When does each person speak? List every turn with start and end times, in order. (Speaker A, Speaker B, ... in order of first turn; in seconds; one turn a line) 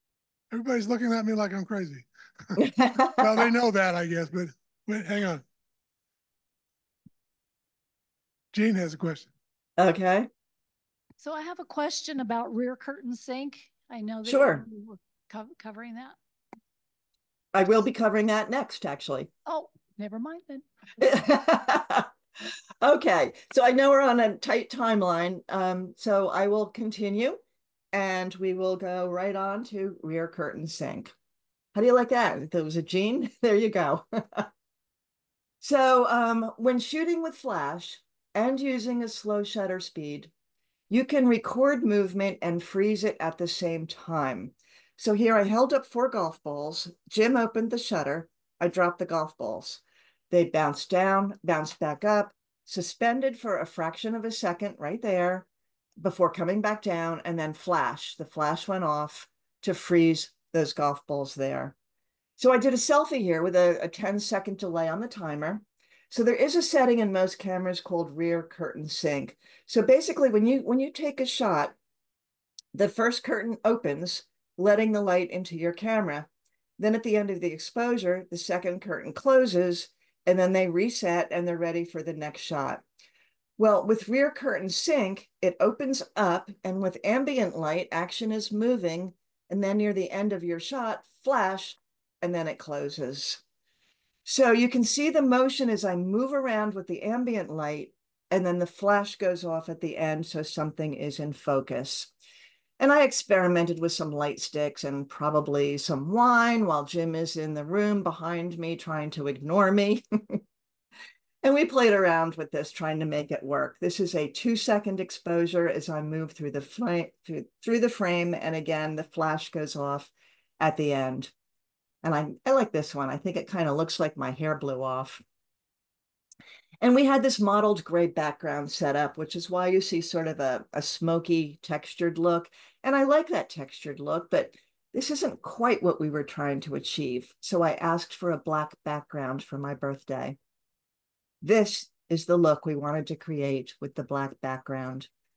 Speaker A: 0.5-2.5
Speaker B: 2.6-3.3
Speaker A: 3.2-5.4
Speaker A: 8.5-9.3
Speaker B: 9.8-10.3
Speaker C: 11.2-16.1
Speaker B: 14.2-14.6
Speaker B: 17.5-19.3
Speaker C: 19.4-20.6
Speaker B: 21.0-22.1
Speaker B: 22.8-27.4
Speaker B: 27.9-31.1
Speaker B: 31.7-34.5
Speaker B: 35.6-40.3
Speaker B: 40.9-55.5
Speaker B: 56.0-61.8
Speaker B: 62.4-71.8
Speaker B: 72.7-82.8
Speaker B: 83.6-93.4
Speaker B: 94.2-102.1
Speaker B: 102.8-110.4
Speaker B: 111.4-121.3
Speaker B: 122.0-125.2
Speaker B: 126.8-140.4
Speaker B: 141.4-145.1